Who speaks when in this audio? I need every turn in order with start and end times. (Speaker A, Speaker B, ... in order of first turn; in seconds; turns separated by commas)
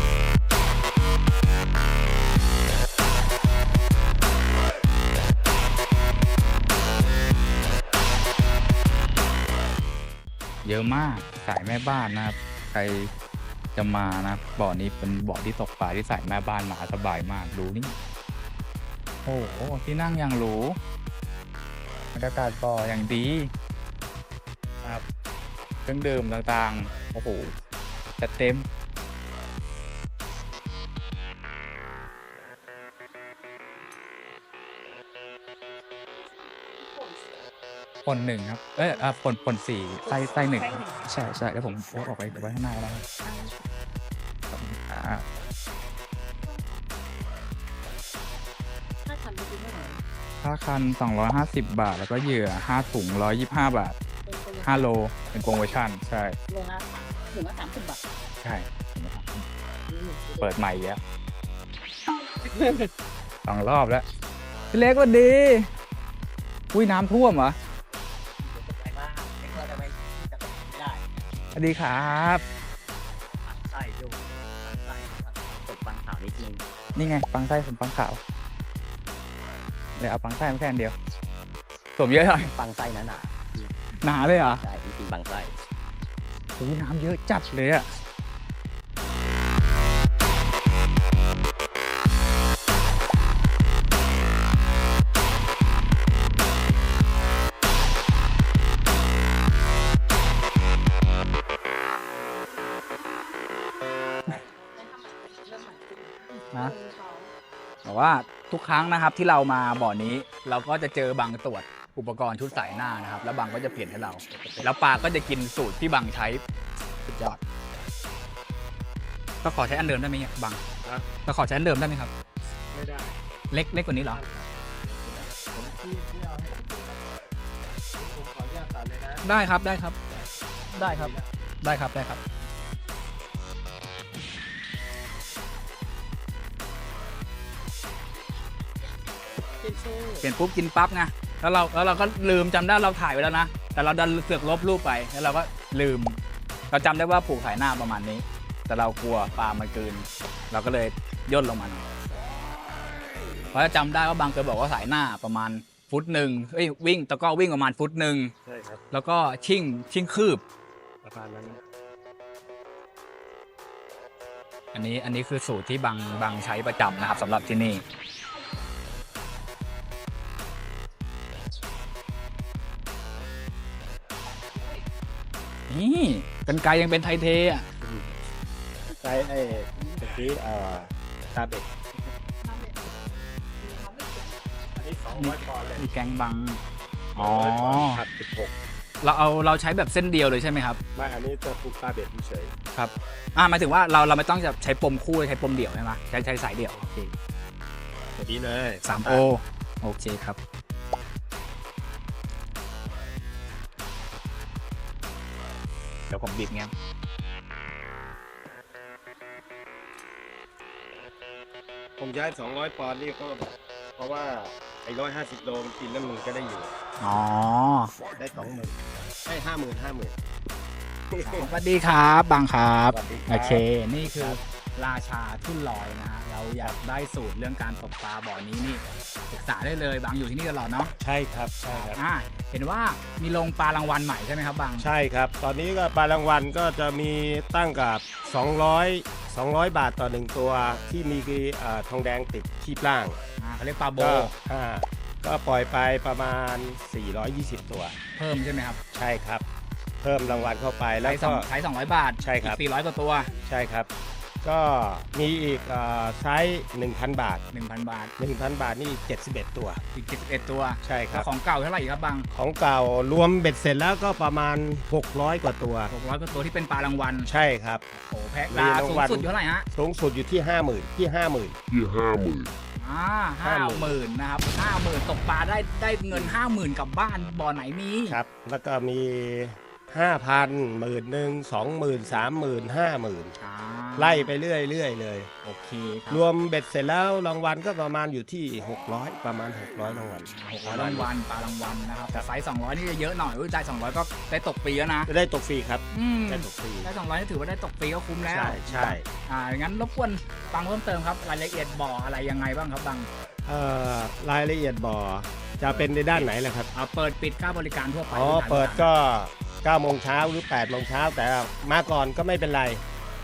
Speaker A: 10.6-13.1, Speaker A: 13.8-17.9, Speaker A: 19.2-20.8, Speaker A: 22.1-23.5, Speaker A: 25.8-27.5, Speaker A: 28.2-28.6, Speaker A: 38.0-43.0, Speaker A: 44.5-45.2, Speaker A: 50.4-54.0, Speaker A: 54.6-56.4, Speaker A: 58.4-59.4, Speaker A: 60.4-61.0, Speaker A: 63.4-64.0, Speaker A: 64.7-65.7, Speaker A: 66.7-67.5, Speaker B: 68.4-71.1, Speaker A: 71.5-72.4, Speaker B: 73.4-76.6, Speaker A: 77.0-78.2, Speaker A: 80.0-80.9, Speaker A: 82.0-82.5, Speaker B: 82.5-83.7, Speaker A: 84.0-84.6, Speaker B: 84.3-85.5, Speaker A: 86.6-87.8, Speaker A: 107.8-116.4, Speaker C: 114.3-114.7, Speaker A: 117.1-117.4, Speaker A: 119.4-120.6, Speaker A: 121.2-122.1, Speaker C: 122.7-123.2, Speaker A: 123.5-124.2, Speaker C: 124.0-127.0, Speaker C: 128.0-129.3, Speaker A: 129.2-129.9, Speaker C: 130.1-131.3, Speaker A: 130.8-131.1, Speaker A: 131.6-132.2, Speaker A: 140.2-146.2, Speaker A: 146.7-151.8, Speaker A: 153.5-158.3, Speaker C: 158.4-158.8, Speaker A: 158.9-160.4, Speaker C: 161.0-161.6, Speaker A: 164.7-167.8, Speaker A: 175.7-177.7, Speaker C: 177.8-178.1, Speaker C: 179.0-181.7, Speaker C: 184.7-185.9, Speaker A: 185.1-186.6, Speaker A: 187.2-188.0, Speaker C: 187.2-188.5, Speaker A: 189.0-190.8, Speaker C: 190.9-192.5, Speaker A: 192.7-197.1, Speaker C: 198.2-199.3, Speaker A: 198.8-200.4, Speaker A: 206.1-206.7, Speaker C: 212.0-216.7, Speaker A: 217.0-217.9, Speaker C: 218.2-218.7, Speaker C: 219.2-220.1, Speaker C: 221.1-221.5, Speaker A: 221.2-230.9, Speaker C: 222.9-224.4, Speaker C: 231.0-232.0, Speaker A: 231.7-234.9, Speaker C: 234.8-243.2, Speaker A: 243.4-244.3, Speaker C: 244.0-247.9, Speaker A: 248.2-248.8, Speaker C: 248.9-249.4, Speaker C: 250.0-251.5, Speaker A: 251.0-253.3, Speaker C: 252.2-252.6, Speaker C: 253.4-253.9, Speaker C: 254.4-257.4, Speaker A: 257.5-258.1, Speaker C: 258.2-259.8, Speaker A: 259.9-262.3, Speaker C: 260.8-261.3, Speaker C: 262.3-265.9, Speaker A: 265.9-267.3, Speaker C: 267.3-267.8, Speaker A: 267.9-269.6, Speaker C: 268.5-271.6, Speaker A: 272.8-278.2, Speaker C: 273.4-274.0, Speaker C: 276.1-276.4, Speaker C: 278.1-283.3, Speaker A: 283.4-284.3, Speaker C: 284.0-285.3, Speaker A: 285.4-286.2, Speaker C: 286.1-291.1, Speaker A: 289.8-295.1, Speaker C: 295.1-296.9, Speaker A: 295.9-303.1, Speaker C: 298.2-299.1, Speaker C: 303.4-306.7, Speaker A: 305.7-308.9, Speaker C: 308.1-312.8